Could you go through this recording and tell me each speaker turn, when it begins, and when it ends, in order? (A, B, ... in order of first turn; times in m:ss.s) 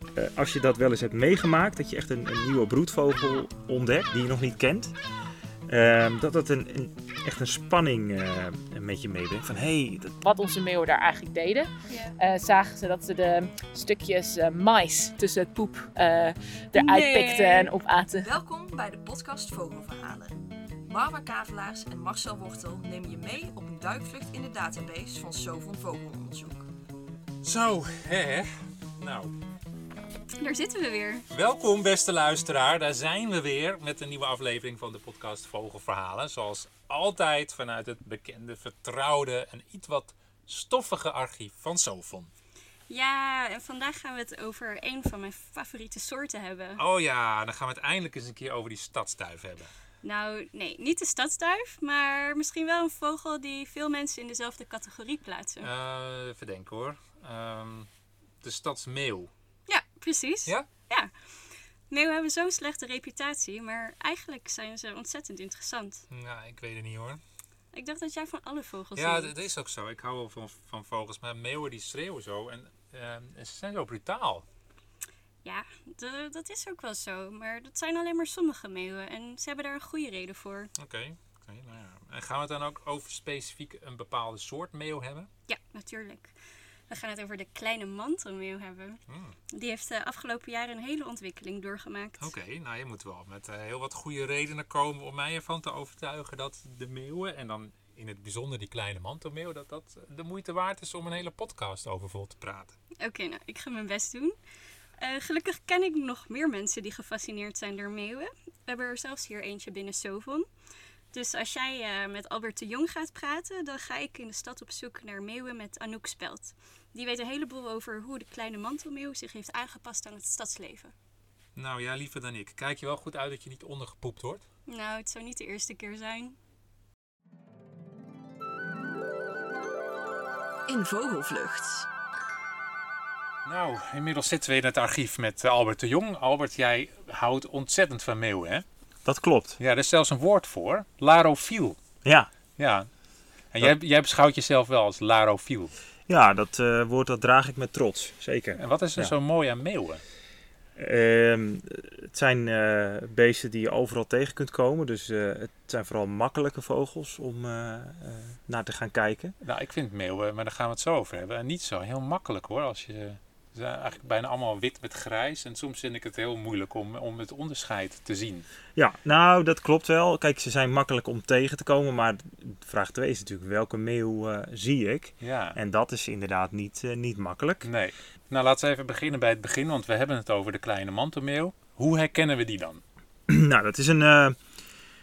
0:00.1-0:04.9 A
0:05.7-0:10.2 A
0:10.2-0:18.3 B
0:11.9-0:12.1 C
0:16.7-0:17.7 C
0:18.2-0:26.6 D
0:27.4-0:29.3 E
0:30.4-0:31.3 C
0:31.3-0:42.3 E
0:42.9-0:46.8 C
0:46.8-0:49.7 E
0:50.0-0:55.7 C
0:55.6-0:57.9 E
0:58.4-0:59.3 E
0:59.7-1:06.0 C
1:06.1-1:07.2 E
1:07.7-1:09.3 C
1:09.0-1:14.4 E
1:15.4-1:20.7 C
1:20.8-1:25.3 E
1:25.5-1:26.4 C
1:26.9-1:29.0 C
1:29.1-1:29.4 E
1:29.5-1:32.3 C
1:32.2-1:42.7 E
1:43.0-1:44.4 C
1:45.0-1:50.5 C
1:51.1-2:00.9 C
2:01.6-2:04.4 E
2:04.7-2:06.4 C
2:10.7-2:11.9 D
2:13.4-2:18.6 E
2:19.0-2:19.6 A
2:19.6-2:21.8 E
2:22.0-2:22.3 A
2:22.6-2:22.9 E
2:23.5-2:25.7 E
2:26.1-2:29.1 A
2:28.6-2:30.0 E
2:30.8-2:39.4 A
2:39.4-2:48.4 E
2:48.8-2:57.7 A
2:55.2-2:55.6 E
2:57.6-3:02.8 E
3:03.3-3:04.4 A